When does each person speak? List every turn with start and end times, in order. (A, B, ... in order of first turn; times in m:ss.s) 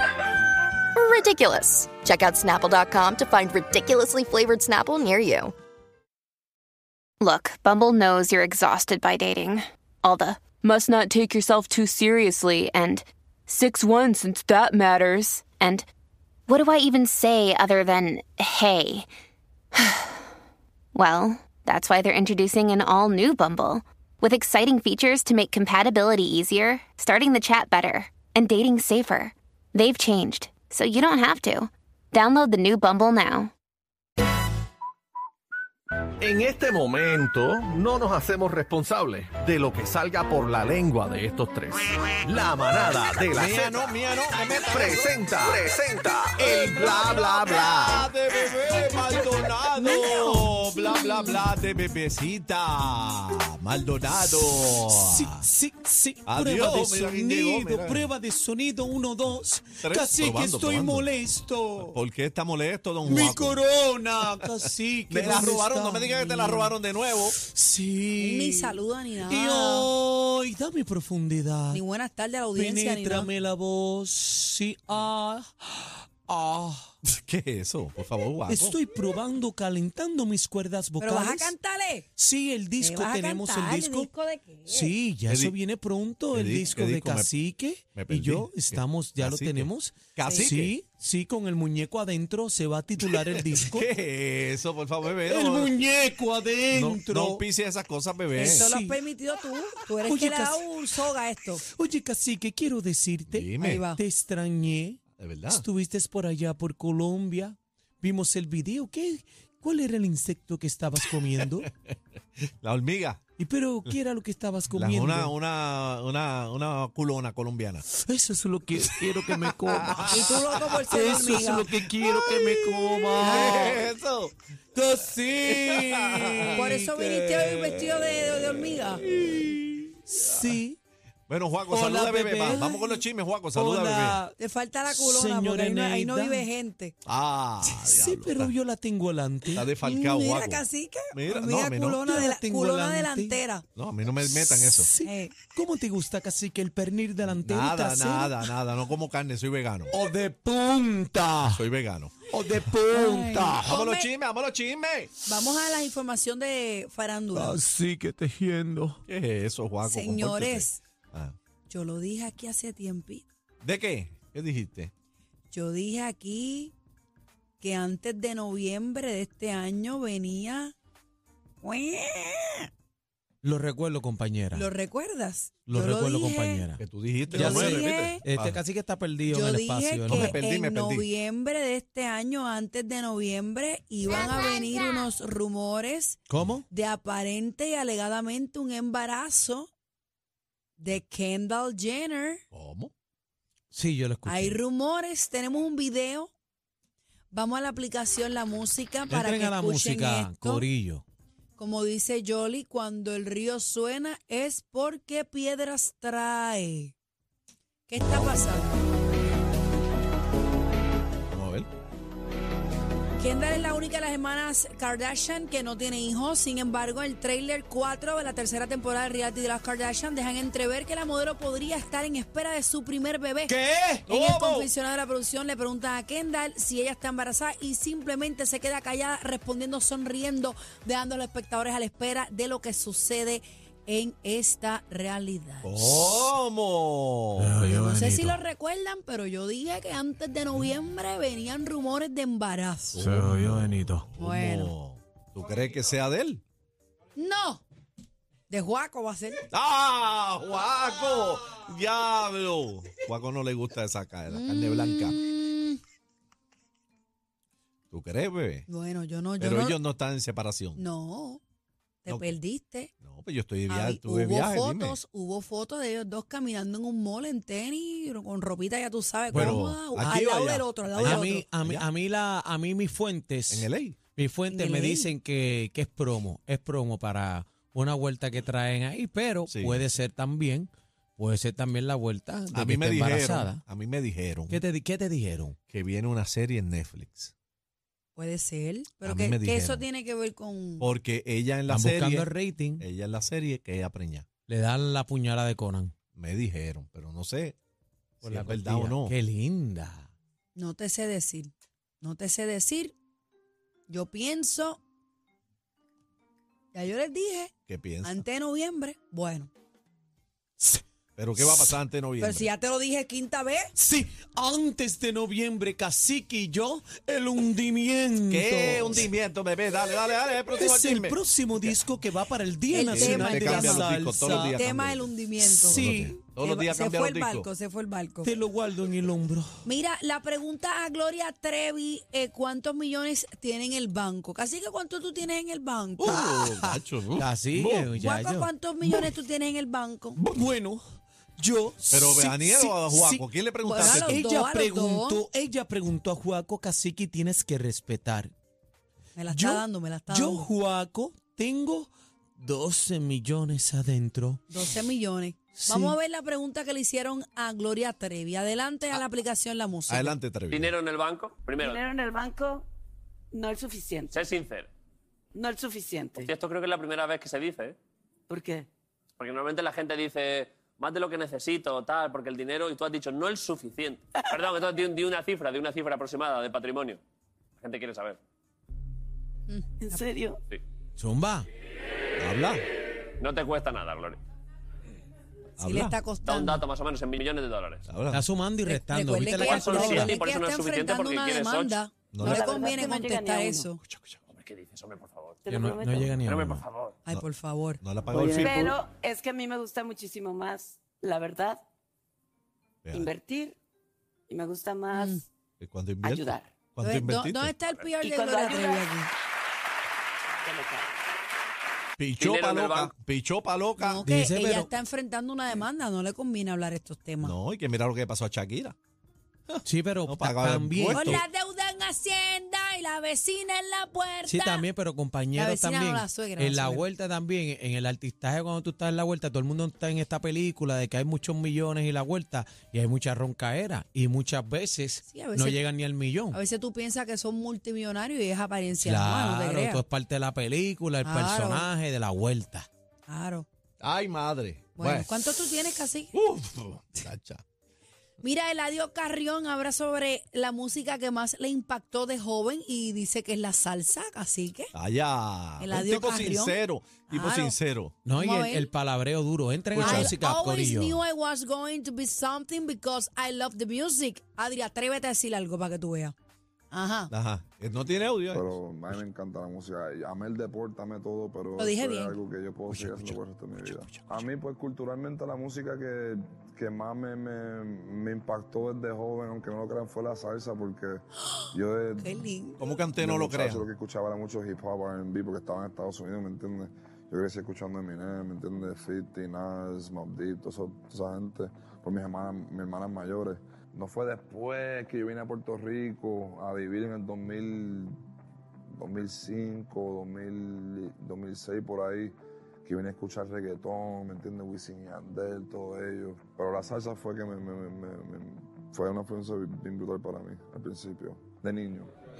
0:01.0-0:05.5 A
0:07.2-0:15.8 B
0:16.5-0:19.0 B
0:19.8-0:20.1 B
0:20.9-0:33.5 B
0:36.2-0:48.1 C
0:43.3-0:45.5 D
0:46.4-0:55.4 D
0:49.8-0:51.3 E
0:54.6-1:02.0 E
0:56.2-0:58.1 D
0:59.8-1:01.1 D
1:01.8-1:03.6 D
1:03.0-1:06.8 E
1:05.1-1:07.3 D
1:07.3-1:11.8 E
1:08.2-1:09.9 F
1:11.7-1:13.3 F
1:12.5-1:16.9 E
1:17.1-1:18.8 D
1:18.5-1:21.5 E
1:21.0-1:22.0 F
1:22.2-1:24.1 E
1:22.8-1:24.9 F
1:24.7-1:33.8 E
1:25.3-1:25.5 D
1:26.3-1:27.3 D
1:27.9-1:30.7 D
1:30.2-1:30.5 F
1:33.3-1:35.7 D
1:35.1-1:37.4 E
1:36.7-1:38.7 D
1:38.4-1:41.6 F
1:38.4-1:39.0 E
1:40.0-1:41.1 E
1:41.6-1:51.7 E
1:43.3-1:43.9 D
1:43.6-1:44.0 F
1:45.2-1:45.6 D
1:51.4-1:51.9 D
1:52.6-1:53.2 D
1:53.4-1:55.3 E
1:54.7-1:57.8 D
1:57.9-2:03.9 E
1:58.8-2:04.3 D
2:00.1-2:01.7 F
2:04.7-2:07.0 E
2:05.4-2:10.6 D
2:06.6-2:09.0 F
2:10.1-2:10.8 E
2:11.3-2:14.2 D
2:11.7-2:12.6 E
2:12.5-2:13.0 F
2:13.5-2:14.3 E
2:14.4-2:16.9 F
2:14.9-2:16.5 E
2:17.0-2:18.5 D
2:17.7-2:19.6 E
2:19.6-2:22.2 D
2:19.8-2:23.6 F
2:22.0-2:23.4 E
2:23.7-2:24.9 D
2:24.3-2:28.5 E
2:25.0-2:25.4 F
2:27.2-2:29.9 D
2:29.9-2:31.6 E
2:31.5-2:32.1 D
2:32.3-2:33.7 E
2:32.9-2:34.1 F
2:33.6-2:35.1 D
2:35.2-2:37.6 F
2:37.3-2:39.0 E
2:39.1-2:41.3 D
2:39.8-2:40.8 F
2:41.7-2:43.2 F
2:43.6-2:44.9 D
2:45.5-2:46.7 F
2:47.6-2:50.7 F
2:51.6-2:52.7 F
2:53.4-2:54.7 E
2:54.5-2:56.7 F
2:55.7-2:56.8 E
2:56.8-2:58.6 D
2:57.3-2:58.2 F
2:57.3-3:00.3 E
2:59.3-3:09.7 F
3:00.1-3:01.1 D
3:06.3-3:06.6 E
3:10.8-3:12.4 F
3:12.5-3:12.9 D
3:13.7-3:14.6 E
3:14.2-3:16.3 F
3:17.3-3:20.7 F
3:19.1-3:21.0 E
3:21.6-3:26.9 F
3:27.9-3:28.8 F
3:31.3-3:31.7 D
3:33.2-3:43.6 F
3:43.5-3:44.1 E
3:44.1-3:55.9 F
3:44.1-3:44.7 D
3:55.6-3:57.6 D
3:57.4-3:58.4 E
3:57.6-4:03.0 F
4:02.9-4:06.4 D
4:03.0-4:04.0 E
4:04.2-4:04.7 F
4:07.2-4:07.6 F
4:08.5-4:09.4 F
4:09.5-4:15.2 D
4:14.3-4:15.8 F
4:17.9-4:18.7 D
4:18.7-4:19.8 F
4:19.4-4:20.8 D
4:20.7-4:21.4 F
4:22.0-4:22.9 F
4:22.1-4:22.4 D
4:23.0-4:25.0 D
4:23.7-4:31.4 F
4:29.3-4:29.6 E
4:29.3-4:31.9 D
4:31.0-4:43.6 E
4:33.5-4:34.0 D
4:34.5-4:35.1 F
4:39.5-4:39.8 D
4:42.5-4:44.6 D
4:44.5-4:45.6 E
4:45.7-4:47.3 D
4:48.2-4:50.9 F
4:49.0-4:49.8 D
4:50.8-4:52.3 D
4:51.7-4:52.8 E
4:52.8-4:54.3 D
4:54.5-4:55.9 E
4:56.1-4:57.6 D
4:58.2-4:59.2 D
4:58.2-5:00.1 E
5:00.6-5:02.9 F
5:03.9-5:04.8 F
5:06.7-5:07.5 F
5:07.7-5:08.2 D
5:08.0-5:09.5 F
5:11.2-5:12.5 D
5:11.4-5:11.8 E
5:12.2-5:13.7 F
5:13.8-5:19.1 E
5:18.3-5:21.8 D
5:20.5-5:24.6 E
5:22.7-5:28.3 F
5:22.8-5:25.1 D
5:25.4-5:26.2 E
5:25.6-5:27.5 D
5:28.2-5:29.6 E
5:29.6-5:36.2 F
5:36.0-5:37.9 D
5:36.1-5:38.5 E
5:37.9-5:40.2 F
5:40.2-5:40.8 E
5:41.4-5:43.2 E
5:41.9-5:44.2 D
5:43.6-5:45.2 F
5:43.7-5:48.3 E
5:49.2-5:50.5 F
5:49.3-5:54.6 E
5:54.5-6:00.2 F
5:55.5-5:56.0 E
5:59.9-6:00.7 D
6:00.5-6:01.8 G
6:01.6-6:02.7 H
6:03.3-6:04.1 H
6:04.1-6:04.7 G
6:05.3-6:06.3 H
6:06.2-6:07.7 G
6:08.3-6:08.7 H
6:09.2-6:17.0 G
6:17.6-6:18.2 G
6:19.5-6:20.0 F
6:19.9-6:20.4 H
6:21.0-6:21.5 E
6:22.2-6:22.6 D
6:23.2-6:24.2 G
6:25.6-6:25.9 D
6:25.6-6:26.6 F
6:26.2-6:27.8 G
6:27.9-6:28.2 D
6:28.1-6:30.1 E
6:28.6-6:33.8 F
6:29.3-6:31.8 G
6:32.1-6:32.5 D
6:32.2-6:33.7 H
6:33.8-6:34.2 D
6:34.3-6:35.5 G
6:35.4-6:36.1 H
6:35.5-6:36.6 E
6:36.2-6:36.9 G
6:37.0-6:37.8 F
6:37.8-6:38.7 D
6:38.1-6:41.6 H
6:42.9-6:43.6 H
6:44.3-6:45.2 H
6:44.9-6:45.2 F
6:45.6-6:47.5 D
6:46.0-6:46.5 H
6:46.8-6:49.1 F
6:48.0-6:48.9 H
6:50.4-6:50.9 H
6:52.0-6:54.0 D
6:52.2-6:52.9 G
6:53.8-6:57.4 F
6:54.0-6:54.7 E
6:57.2-6:58.8 D
6:59.5-7:01.2 D
6:59.6-7:01.1 E
7:00.9-7:04.6 F
7:04.2-7:16.4 E
7:05.3-7:06.8 F
7:15.0-7:15.6 F
7:16.3-7:19.8 F
7:18.8-7:22.7 E
7:21.0-7:21.7 F
7:23.1-7:23.4 F
7:23.8-7:25.1 D
7:24.8-7:26.1 F
7:26.1-7:27.4 D
7:28.2-7:34.7 F
7:34.7-7:38.0 D
7:35.6-7:37.6 F
7:38.0-7:41.0 E
7:38.1-7:38.7 F
7:39.7-7:40.1 D
7:39.8-7:46.1 F
7:46.7-7:47.1 F
7:47.1-7:49.0 D
7:48.3-8:02.1 I
7:51.6-7:52.2 F
7:52.7-7:54.2 D
8:02.0-8:02.6 F
8:02.6-8:03.7 D
8:03.0-8:17.9 I
8:18.8-8:31.9 I